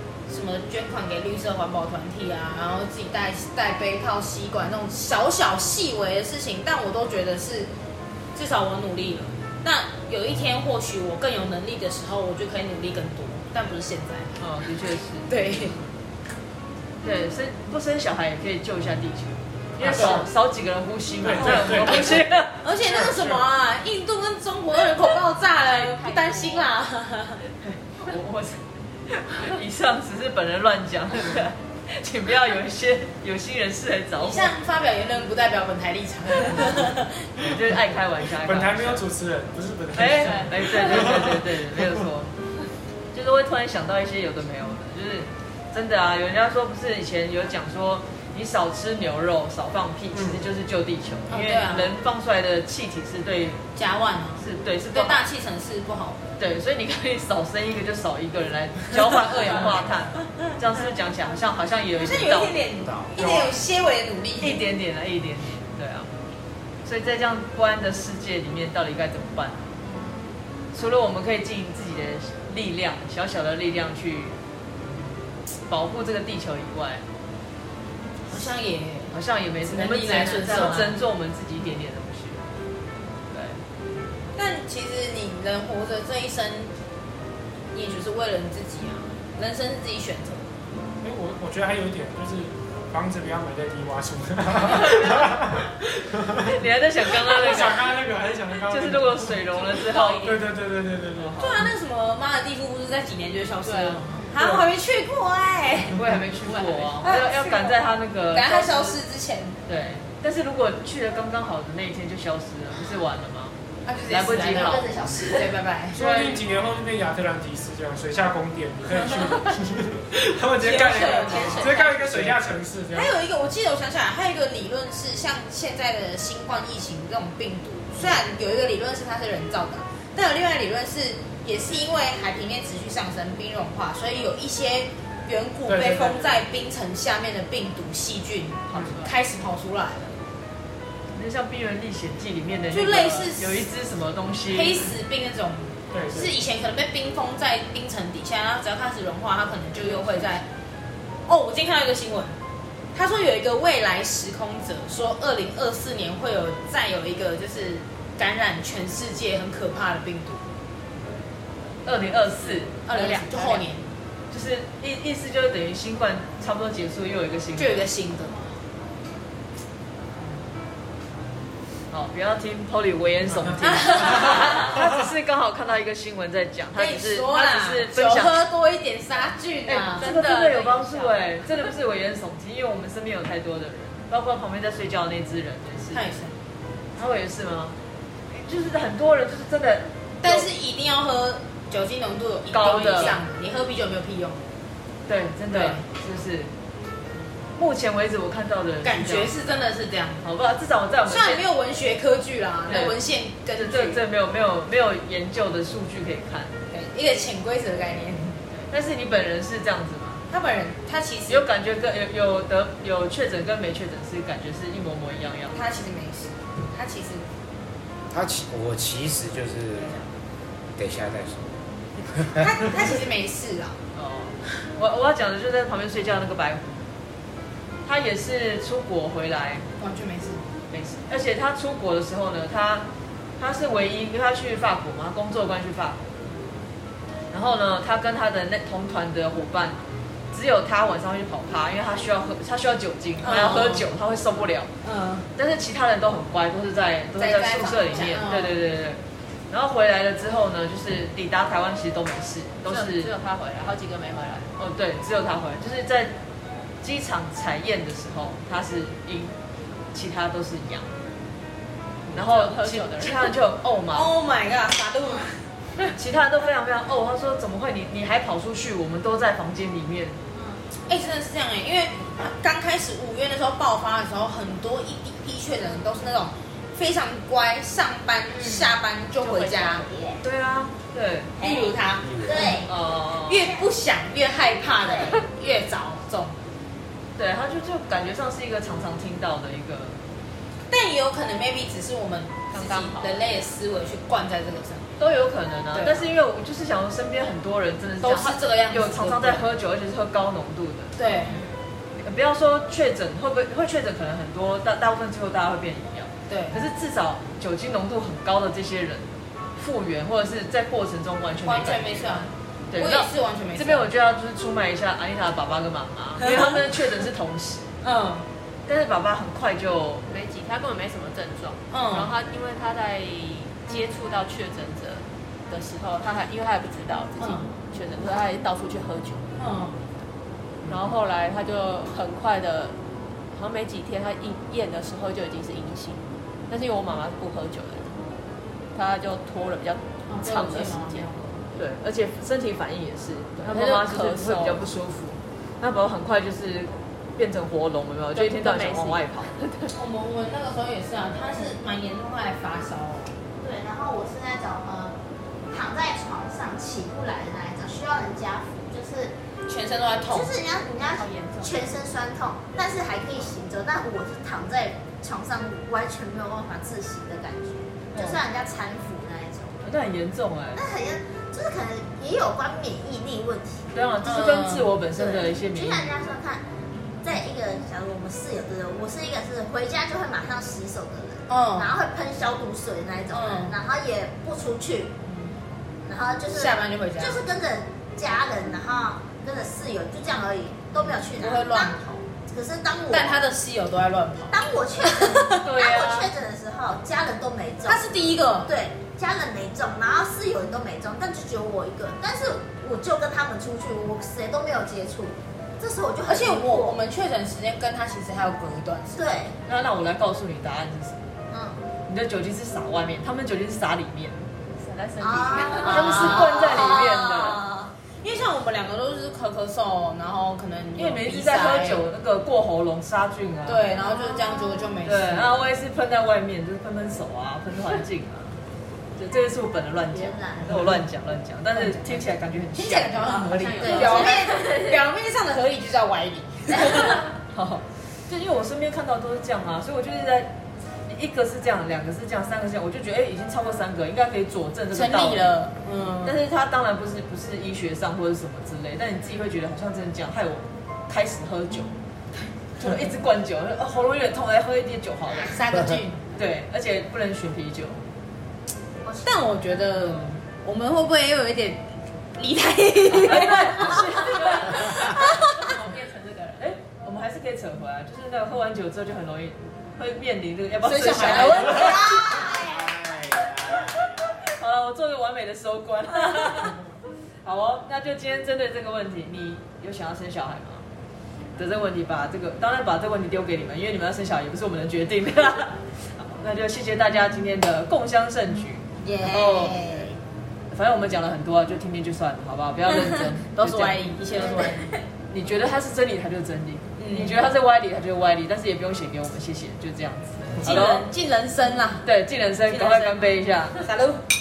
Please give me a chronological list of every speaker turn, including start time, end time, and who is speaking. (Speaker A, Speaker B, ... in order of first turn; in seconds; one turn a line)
Speaker A: 0.3-7.7
Speaker A: 8.3-14.3
Speaker B: 14.4-15.7
Speaker A: 15.3-15.8
Speaker B: 17.0-23.1
Speaker C: 19.8-20.3
Speaker A: 19.9-20.1
Speaker C: 21.2-22.2
Speaker A: 21.4-22.1
Speaker A: 22.6-27.4
Speaker C: 22.9-23.4
Speaker D: 25.9-26.6
Speaker B: 27.6-34.5
Speaker A: 34.2-37.2
Speaker B: 37.4-39.0
Speaker C: 38.4-41.8
Speaker B: 39.9-42.3
Speaker D: 40.4-41.1
Speaker B: 43.1-53.6
Speaker C: 50.1-50.4
Speaker A: 51.3-51.9
Speaker A: 53.8-56.2
Speaker B: 54.4-55.2
Speaker B: 56.4-62.6
Speaker A: 59.3-59.9
Speaker A: 62.0-64.6
Speaker E: 62.8-63.2
Speaker B: 63.2-63.5
Speaker B: 64.4-66.1
Speaker B: 66.8-69.7
Speaker B: 70.7-74.4
Speaker B: 75.7-77.0
Speaker A: 78.3-81.0
Speaker B: 79.1-82.5
Speaker B: 83.3-83.6
Speaker A: 84.3-86.7
Speaker A: 87.7-90.6
Speaker C: 91.0-96.5
Speaker B: 96.3-97.9
Speaker C: 97.1-101.4
Speaker B: 98.7-100.4
Speaker D: 99.8-100.3
Speaker B: 101.2-101.7
Speaker A: 101.4-106.0
Speaker D: 103.6-104.2
Speaker B: 104.4-104.7
Speaker B: 105.9-109.0
Speaker D: 106.4-107.2
Speaker A: 107.0-109.6
Speaker B: 109.7-113.5
Speaker A: 113.8-116.2
Speaker B: 114.1-114.9
Speaker F: 114.5-115.5
Speaker C: 115.9-123.1
Speaker B: 115.9-116.4
Speaker A: 120.6-122.3
Speaker A: 122.9-140.3
Speaker C: 135.7-136.4
Speaker D: 138.8-139.1
Speaker B: 141.1-144.9
Speaker A: 142.7-143.7
Speaker A: 144.5-150.4
Speaker C: 145.9-146.4
Speaker B: 149.7-150.3
Speaker A: 151.3-152.4
Speaker A: 152.9-160.4
Speaker B: 161.8-163.2
Speaker A: 162.8-163.9
Speaker B: 164.3-167.8
Speaker A: 167.6-168.5
Speaker B: 171.9-178.4
Speaker A: 173.6-174.6
Speaker A: 176.7-180.1
Speaker B: 179.7-186.0
Speaker D: 179.9-181.2
Speaker A: 185.9-186.3
Speaker B: 186.9-187.8
Speaker B: 188.3-190.5
Speaker A: 190.2-194.5
Speaker B: 192.5-193.2
Speaker B: 195.1-196.5
Speaker A: 195.5-195.8
Speaker B: 197.6-199.3
Speaker A: 198.8-200.2
Speaker B: 200.2-201.5
Speaker A: 201.0-204.0
Speaker B: 202.6-203.0
Speaker B: 203.5-206.6
Speaker A: 206.7-208.4
Speaker B: 208.7-210.2
Speaker A: 210.3-211.4
Speaker B: 211.3-215.6
Speaker A: 215.5-217.2
Speaker E: 218.1-220.0
Speaker E: 220.8-221.6
Speaker E: 222.1-222.7
Speaker A: 222.3-223.8
Speaker B: 223.9-226.9
Speaker B: 227.8-229.7
Speaker A: 229.8-230.5
Speaker B: 230.7-236.0
Speaker B: 237.3-239.8
Speaker B: 240.3-244.7
Speaker A: 243.2-243.9
Speaker A: 244.8-245.3
Speaker B: 245.3-253.1
Speaker A: 247.2-248.6
Speaker D: 252.7-254.5
Speaker B: 254.6-256.1
Speaker B: 256.8-259.4
Speaker B: 259.9-261.0
Speaker D: 262.1-263.3
Speaker B: 262.1-264.1
Speaker A: 263.9-265.4
Speaker B: 265.9-270.2
Speaker A: 270.9-279.9
Speaker B: 279.2-281.3
Speaker F: 279.4-280.2
Speaker F: 281.4-282.7
Speaker A: 281.4-282.6
Speaker E: 282.0-282.6
Speaker B: 282.6-283.4
Speaker A: 283.2-286.4
Speaker F: 283.4-283.7
Speaker F: 284.8-285.2
Speaker B: 287.1-290.0
Speaker A: 290.7-294.9
Speaker D: 292.5-293.4
Speaker B: 295.0-300.9
Speaker A: 295.7-296.1
Speaker A: 298.0-299.4
Speaker A: 301.0-301.4
Speaker B: 301.9-317.7
Speaker A: 306.3-306.6
Speaker A: 311.4-313.9
Speaker A: 316.2-317.0
Speaker A: 317.8-318.3
Speaker B: 318.6-320.0
Speaker D: 320.1-329.2
Speaker A: 321.7-322.1
Speaker A: 327.2-327.5
Speaker A: 329.4-329.8
Speaker D: 330.6-332.8
Speaker D: 333.3-338.0
Speaker D: 338.7-341.6
Speaker A: 340.1-341.4
Speaker B: 341.6-349.3
Speaker D: 343.4-344.7
Speaker D: 348.1-349.7
Speaker A: 349.7-353.1
Speaker F: 353.4-354.9
Speaker F: 355.5-359.1
Speaker A: 359.4-360.3
Speaker F: 360.1-369.6
Speaker D: 360.6-361.7
Speaker B: 367.9-368.2
Speaker B: 369.6-370.6
Speaker F: 370.5-373.7
Speaker B: 373.7-375.9
Speaker A: 374.0-374.7
Speaker F: 374.9-376.4
Speaker F: 377.0-384.9
Speaker A: 381.3-381.7
Speaker A: 383.1-383.5
Speaker A: 385.1-385.4
Speaker F: 385.8-393.2
Speaker A: 386.3-387.2
Speaker A: 390.7-391.8
Speaker A: 392.9-395.5
Speaker F: 394.3-397.8
Speaker B: 395.4-396.1
Speaker A: 397.6-398.5
Speaker F: 398.4-406.8
Speaker A: 406.1-409.1
Speaker F: 408.9-409.4
Speaker B: 409.4-411.1
Speaker F: 411.3-411.6
Speaker B: 411.9-414.3
Speaker D: 414.6-415.9
Speaker F: 415.0-417.7
Speaker B: 415.3-417.4
Speaker A: 415.8-416.1
Speaker A: 418.0-421.8
Speaker B: 420.8-423.6
Speaker A: 423.4-425.3
Speaker F: 424.0-424.4
Speaker B: 424.8-428.4
Speaker B: 428.9-433.3
Speaker F: 429.9-430.6
Speaker A: 430.4-430.8
Speaker A: 431.5-437.1
Speaker D: 433.1-434.4
Speaker F: 433.6-434.8
Speaker B: 436.6-440.3
Speaker B: 440.9-445.3
Speaker A: 444.7-446.2
Speaker B: 446.0-451.7
Speaker B: 452.6-455.4
Speaker A: 455.2-456.0
Speaker B: 456.1-457.8
Speaker A: 459.0-461.6
Speaker A: 462.1-465.1
Speaker B: 463.0-464.8
Speaker D: 463.9-466.4
Speaker B: 466.4-471.9
Speaker A: 470.6-471.9
Speaker F: 471.2-472.7
Speaker E: 471.7-474.2
Speaker B: 474.4-476.6
Speaker B: 477.2-480.6
Speaker B: 481.4-489.7
Speaker A: 488.8-489.8
Speaker F: 489.2-489.9
Speaker B: 490.5-494.5
Speaker A: 493.3-494.8
Speaker B: 495.1-500.9
Speaker A: 496.8-497.2
Speaker A: 500.4-501.8
Speaker B: 501.8-503.6
Speaker A: 502.5-503.0
Speaker A: 503.6-504.0